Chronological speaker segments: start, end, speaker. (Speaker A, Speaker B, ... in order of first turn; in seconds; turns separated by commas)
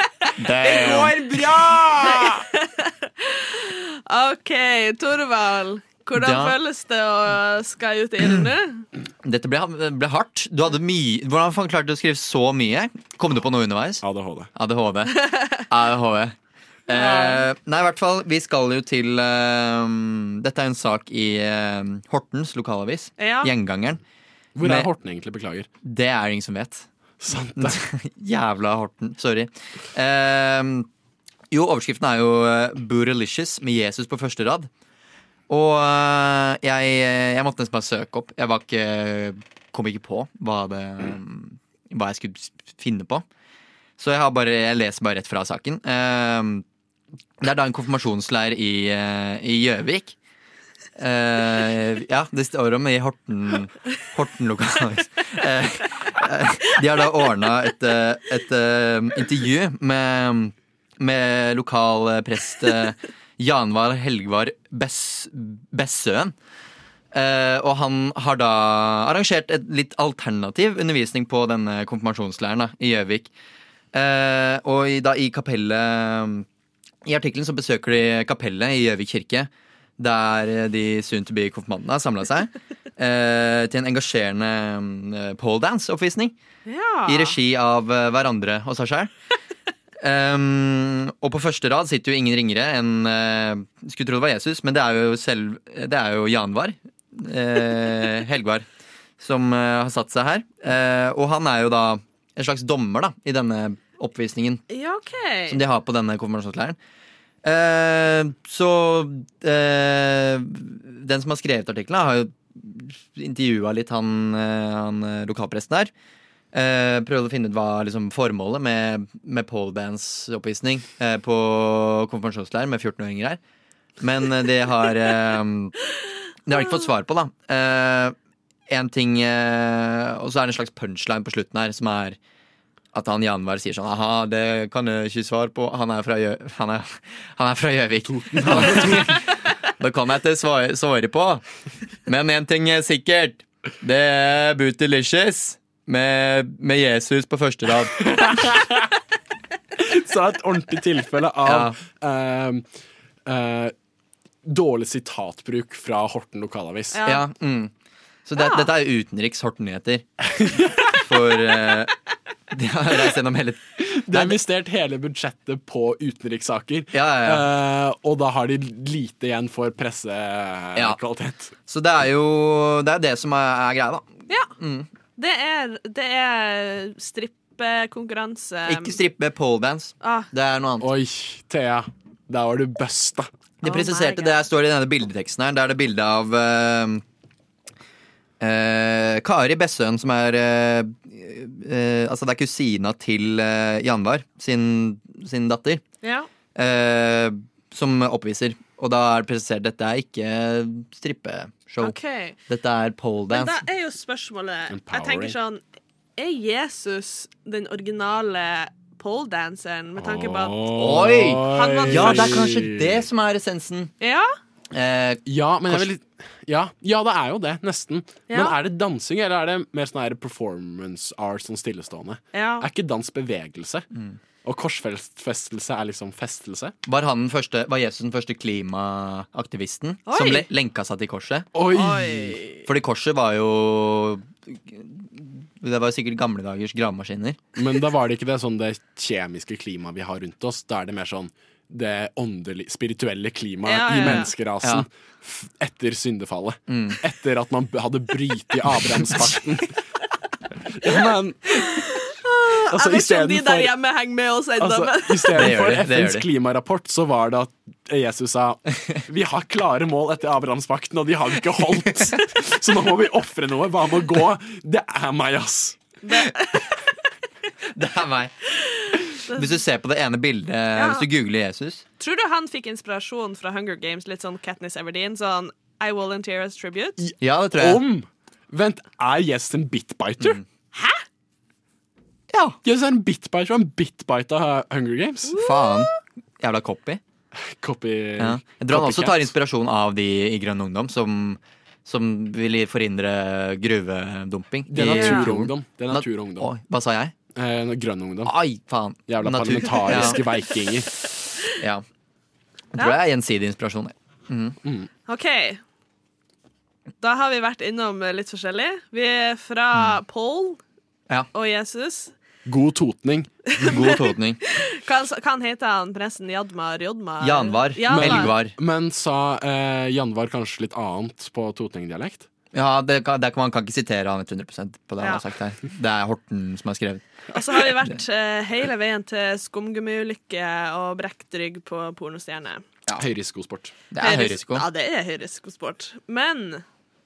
Speaker A: 0.4-1.1, Speaker B: 0.6-2.5, Speaker C: 2.1-8.8, Speaker A: 6.1-6.5, Speaker A: 9.2-14.0, Speaker B: 14.0-14.5, Speaker A: 14.6-16.3, Speaker C: 15.2-15.6, Speaker A: 16.9-24.0, Speaker C: 17.0-17.4, Speaker C: 23.2-23.5, Speaker B: 24.6-25.7, Speaker A: 24.6-24.9, Speaker A: 25.8-26.9, Speaker B: 27.2-27.8, Speaker A: 27.6-30.9, Speaker A: 31.5-34.7, Speaker A: 35.5-43.2, Speaker A: 44.0-46.6, Speaker A: 47.4-50.2, Speaker A: 51.0-66.3, Speaker A: 67.1-73.3, Speaker A: 73.9-76.5, Speaker A: 77.0-86.3, Speaker C: 86.7-87.4, Speaker A: 87.0-89.1, Speaker A: 90.0-98.7, Speaker A: 99.2-104.6, Speaker C: 104.7-105.6, Speaker A: 105.5-106.8, Speaker A: 107.4-115.9, Speaker A: 116.5-123.4, Speaker A: 124.0-125.7, Speaker A: 126.5-128.2, Speaker A: 128.7-132.2, Speaker A: 132.9-139.2, Speaker B: 138.1-139.2, Speaker A: 139.8-141.4, Speaker A: 142.1-148.3, Speaker B: 148.0-148.9, Speaker B: 149.8-152.6, Speaker A: 151.4-151.8, Speaker B: 153.3-153.7, Speaker B: 154.4-157.0, Speaker C: 156.9-157.2, Speaker A: 157.0-157.7, Speaker A: 158.3-160.1, Speaker C: 158.4-158.7, Speaker B: 160.4-160.9, Speaker A: 160.9-161.9, Speaker A: 162.5-164.4, Speaker B: 163.8-171.5, Speaker A: 166.9-167.4, Speaker A: 171.7-174.9, Speaker C: 175.2-178.9, Speaker A: 178.7-180.9, Speaker C: 180.0-180.3, Speaker B: 180.8-183.3, Speaker A: 183.6-187.0, Speaker C: 183.6-184.4, Speaker A: 188.4-195.8, Speaker C: 196.0-196.3, Speaker A: 196.6-201.9, Speaker C: 201.8-202.4, Speaker A: 202.5-203.6, Speaker C: 203.3-205.6, Speaker B: 204.7-205.4, Speaker C: 206.2-210.7, Speaker B: 210.0-213.1, Speaker A: 210.7-213.9, Speaker C: 211.5-212.4, Speaker C: 214.0-214.3, Speaker A: 214.7-215.9, Speaker B: 215.3-223.9, Speaker C: 218.3-218.5, Speaker C: 222.3-222.7, Speaker B: 224.4-226.7, Speaker A: 226.9-231.5, Speaker C: 230.1-230.5, Speaker B: 231.6-232.4, Speaker C: 231.7-232.6, Speaker A: 232.7-237.4, Speaker B: 237.6-249.7, Speaker C: 243.7-244.3, Speaker A: 244.0-244.9, Speaker A: 246.7-247.0, Speaker B: 250.7-251.7, Speaker C: 251.6-255.5, Speaker B: 252.7-253.7, Speaker B: 254.6-265.8, Speaker A: 255.3-256.3, Speaker C: 266.0-266.8, Speaker A: 267.7-268.3, Speaker C: 269.2-269.4, Speaker A: 269.3-271.8, Speaker C: 270.7-271.1, Speaker C: 272.0-276.9, Speaker B: 277.0-280.4, Speaker A: 277.2-277.8, Speaker C: 280.7-281.0, Speaker A: 282.3-282.6, Speaker B: 282.6-285.4, Speaker C: 285.3-285.9, Speaker A: 285.4-287.0, Speaker B: 287.3-289.3, Speaker A: 288.2-297.1, Speaker B: 294.7-296.5, Speaker C: 294.8-295.3, Speaker B: 297.3-298.3, Speaker A: 298.2-300.2, Speaker B: 299.1-300.9, Speaker A: 301.5-301.8, Speaker A: 302.7-304.6, Speaker B: 304.6-304.9, Speaker C: 305.1-305.6, Speaker C: 307.0-310.6, Speaker C: 311.3-312.1, Speaker B: 312.4-313.3, Speaker C: 313.6-318.3, Speaker A: 313.6-314.4, Speaker A: 317.2-318.6, Speaker B: 317.9-322.3, Speaker A: 322.5-327.1, Speaker C: 327.3-332.6, Speaker B: 333.0-333.7, Speaker A: 333.9-334.7, Speaker C: 334.0-336.6